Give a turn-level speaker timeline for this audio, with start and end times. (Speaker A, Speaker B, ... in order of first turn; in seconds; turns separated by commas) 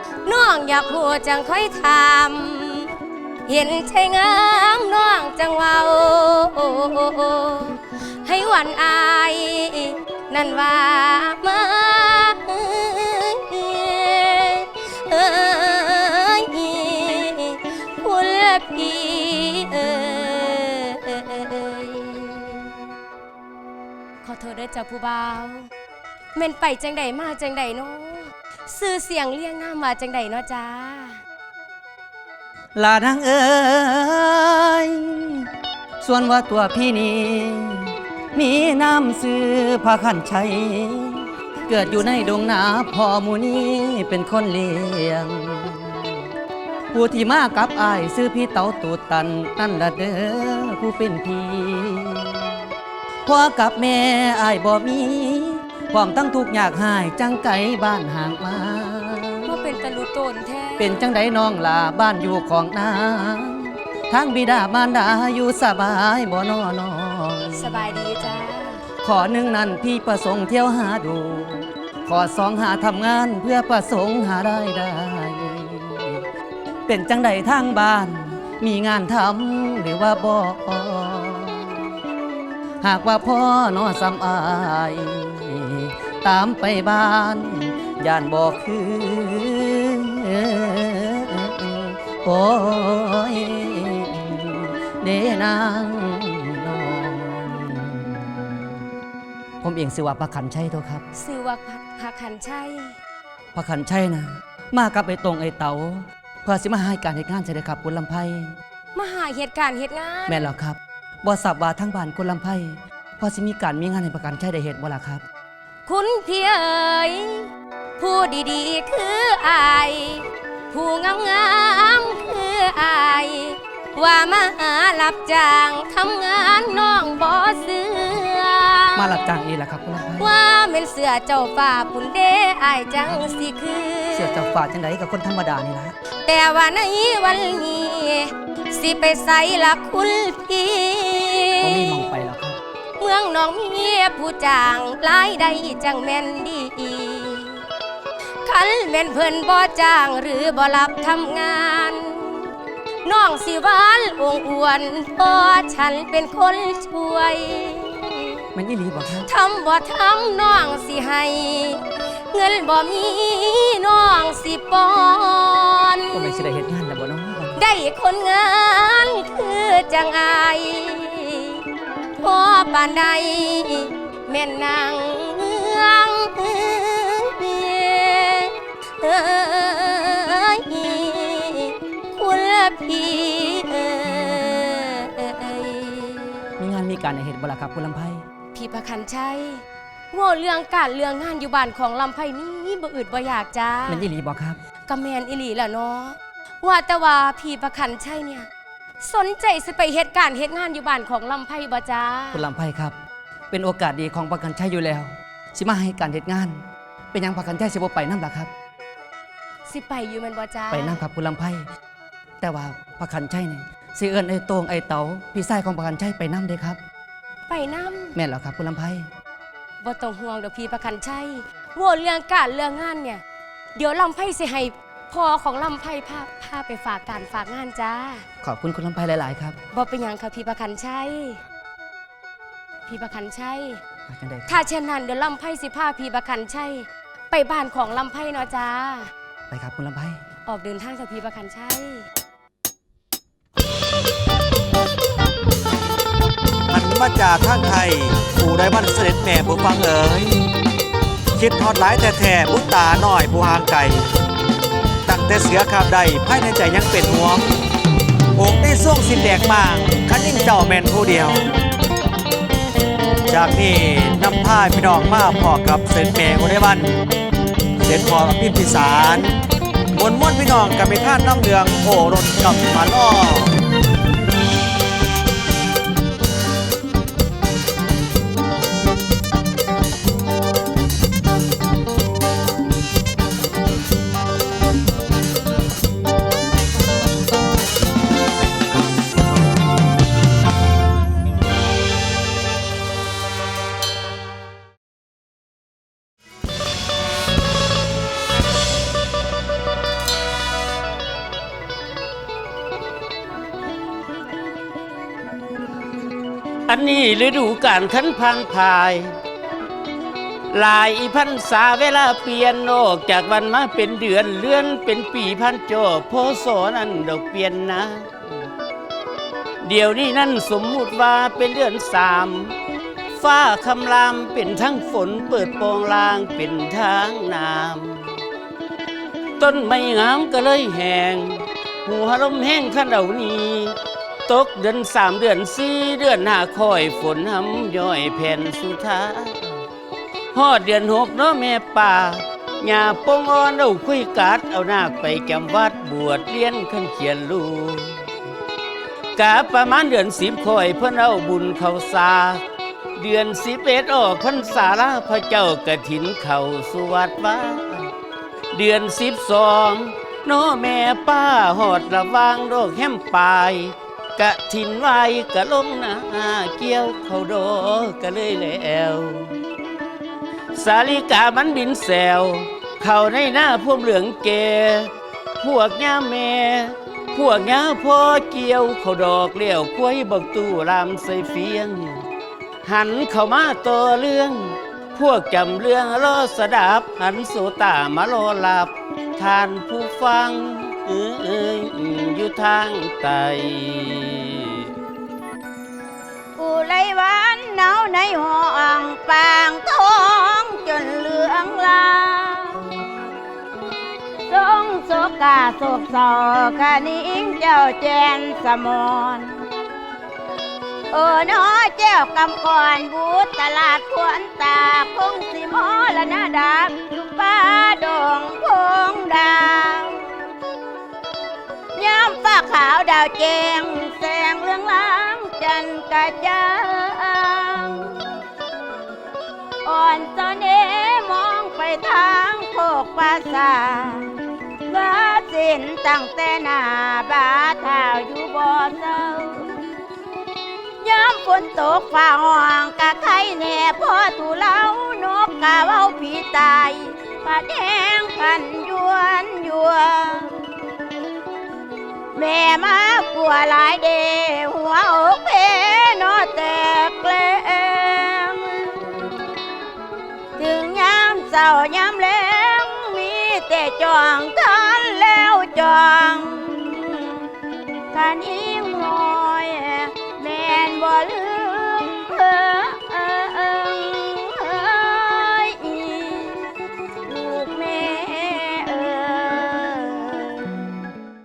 Speaker A: 0.2-2.9, Speaker A: 3.5-22.7, Speaker A: 24.2-25.6, Speaker A: 26.4-31.2, Speaker B: 32.8-35.3, Speaker B: 36.0-45.8, Speaker B: 46.9-52.2, Speaker B: 53.2-59.5, Speaker A: 59.5-60.9, Speaker B: 60.8-67.8, Speaker A: 67.5-68.8, Speaker B: 69.0-76.1, Speaker B: 76.9-81.7, Speaker B: 82.8-98.0, Speaker B: 99.6-101.0, Speaker A: 101.2-102.9, Speaker B: 103.5-108.5, Speaker A: 108.9-110.5, Speaker B: 110.3-115.2, Speaker A: 115.8-117.5, Speaker A: 118.0-129.0, Speaker B: 128.9-130.3, Speaker A: 130.2-134.4, Speaker B: 134.1-135.9, Speaker A: 136.2-142.0, Speaker B: 141.6-142.6, Speaker A: 143.0-147.6, Speaker A: 148.4-152.5, Speaker A: 153.0-158.4, Speaker B: 158.5-159.3, Speaker A: 159.3-161.8, Speaker A: 162.3-166.3, Speaker B: 166.1-167.6, Speaker A: 167.6-171.6, Speaker A: 172.2-186.5, Speaker B: 186.6-188.2, Speaker A: 188.5-194.1, Speaker B: 193.9-194.6, Speaker A: 194.9-198.5, Speaker A: 199.0-202.4, Speaker B: 202.3-203.0, Speaker B: 203.5-206.6, Speaker B: 207.1-208.5, Speaker A: 209.7-211.0, Speaker B: 210.7-211.7, Speaker B: 212.4-216.8, Speaker A: 217.5-218.1, Speaker B: 218.1-219.1, Speaker A: 219.8-223.2, Speaker A: 223.7-228.2, Speaker B: 228.4-229.6, Speaker A: 229.7-231.4, Speaker A: 232.9-233.8, Speaker B: 234.1-234.6, Speaker A: 234.5-239.1, Speaker B: 239.5-240.2, Speaker A: 240.4-242.0, Speaker C: 246.7-250.3, Speaker C: 251.3-254.0, Speaker C: 255.1-257.4, Speaker C: 258.4-261.4, Speaker C: 263.3-266.9, Speaker C: 267.8-269.3, Speaker C: 269.9-273.5, Speaker D: 306.7-309.1, Speaker D: 310.5-318.1, Speaker D: 319.6-322.5, Speaker D: 323.1-328.1, Speaker D: 329.4-339.5, Speaker D: 340.3-348.0, Speaker D: 349.2-352.4, Speaker D: 353.0-357.9, Speaker D: 358.5-369.3, Speaker D: 370.5-382.0, Speaker D: 382.6-394.6, Speaker E: 396.4-402.6, Speaker E: 404.3-409.3, Speaker E: 410.9-420.0, Speaker E: 421.7-427.9, Speaker E: 429.6-434.1, Speaker E: 434.7-439.5, Speaker E: 440.8-450.3, Speaker E: 452.1-458.8, Speaker E: 460.4-467.2, Speaker E: 467.9-476.4, Speaker E: 477.1-480.5